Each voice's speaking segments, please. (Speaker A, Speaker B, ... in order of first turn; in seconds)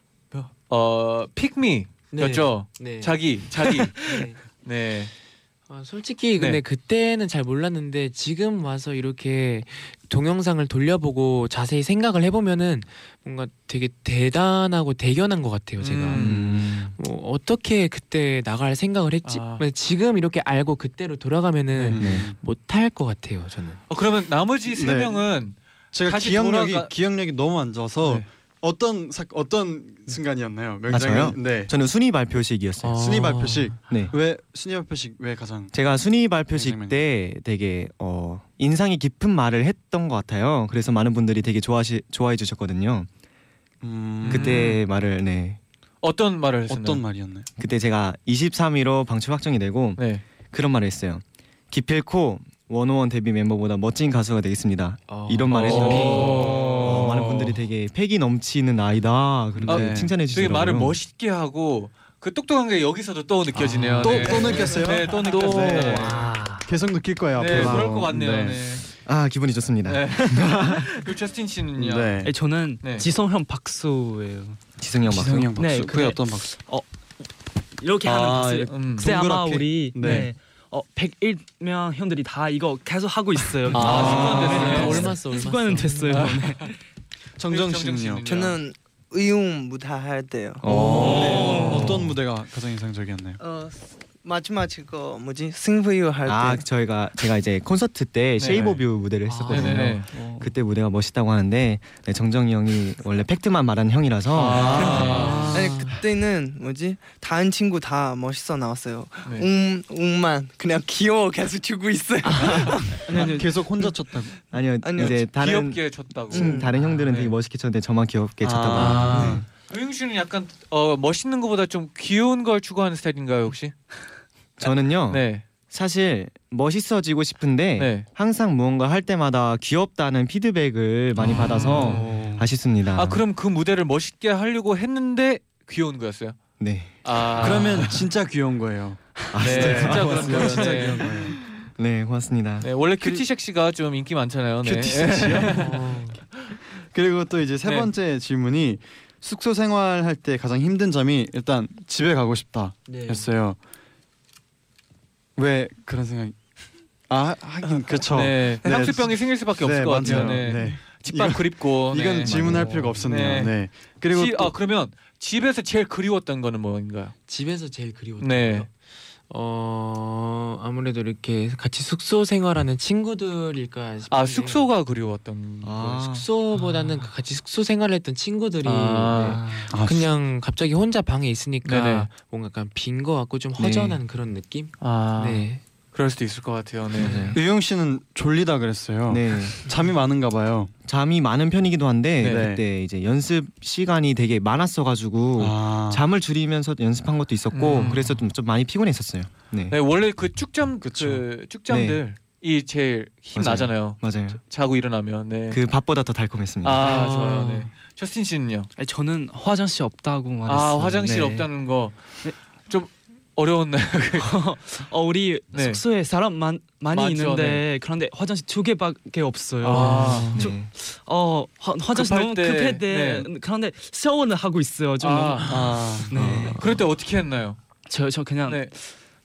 Speaker A: 0.3-5.1, 15.8-16.4, 19.2-19.6, 23.9-26.9, 28.0-28.3, 44.2-44.8, 46.0-47.0, 50.0-50.2, 55.5-57.4, 59.7-66.2, 67.3-68.9, 69.9-72.3, 72.8-73.1, 78.6-79.1, 83.7-85.2, 86.1-86.7, 87.5-88.6, 91.2-91.7, 98.4-98.8, 99.5-100.1, 104.3-105.5, 115.0-117.3, 118.8-123.8, 124.7-125.4, 127.8-128.1, 131.2-132.0, 132.9-136.4, 137.0-138.0, 139.4-141.1, 142.6-145.8, 147.6-147.9, 158.1-162.4, 163.0-163.6, 164.1-167.1, 168.2-168.7, 174.1-176.0, 178.6-179.4, 181.6-182.1, 184.8-187.4, 192.2-192.5, 197.5-198.2, 199.7-205.6, 206.6-208.7, 210.5-214.3, 215.5-215.8, 216.9-217.6, 219.6-220.3, 221.9-223.3, 225.0-225.8, 226.6-227.6, 228.5-228.7
Speaker B: 2.1-4.4, 5.7-23.8, 32.8-33.8, 55.1-57.2, 63.5-66.7, 83.7-86.3, 99.2-99.9, 104.7-106.0, 112.2-112.8, 118.7-119.4, 145.5-146.2, 152.9-153.2, 167.3-168.7, 169.3-174.7, 175.8-185.6, 187.0-187.4, 206.8-207.7, 219.9-220.4
Speaker C: 16.2-16.9, 22.0-22.3, 30.9-33.0, 33.9-34.1, 35.7-43.1, 44.3-45.6, 47.6-61.0, 67.5-67.8, 69.1-71.0, 74.8-75.5, 84.0-84.6, 90.6-92.0, 96.3-105.3, 114.5-119.4, 124.6-133.2, 136.6-137.6, 139.3-140.8, 141.8-142.7, 162.3-162.7, 175.6-176.3, 183.6-184.0, 189.1-189.6, 190.8-199.8, 201.7-202.0, 203.3-204.4, 205.5-206.9, 220.3-220.7, 226.1-226.6
Speaker D: 21.9-22.4, 24.7-25.2, 25.9-31.7, 32.9-35.7, 36.5-37.0, 43.8-44.7, 46.7-47.5, 56.0-57.4, 59.6-60.1, 64.0-68.8, 71.8-72.3, 75.1-76.5, 78.1-80.3, 83.8-84.8, 87.4-88.3, 90.7-93.4, 113.1-114.4, 118.4-119.3, 137.3-141.3, 144.6-145.6, 146.9-153.6, 155.4-156.4, 157.1-164.5, 179.7-180.1, 187.3-190.7, 192.2-192.6, 195.4-196.1, 200.8-201.2, 225.5-226.2
Speaker E: 65.5-65.9, 72.2-74.6, 75.5-76.8, 77.8-86.8, 90.8-92.0, 100.1-100.5, 104.6-105.6, 113.0-113.5, 131.3-132.5, 139.7-141.2, 208.8-211.5, 214.2-226.6, 227.9-228.9
Speaker F: 88.3-90.7, 93.4-96.6, 105.5-113.1, 114.8-115.2, 116.3-116.8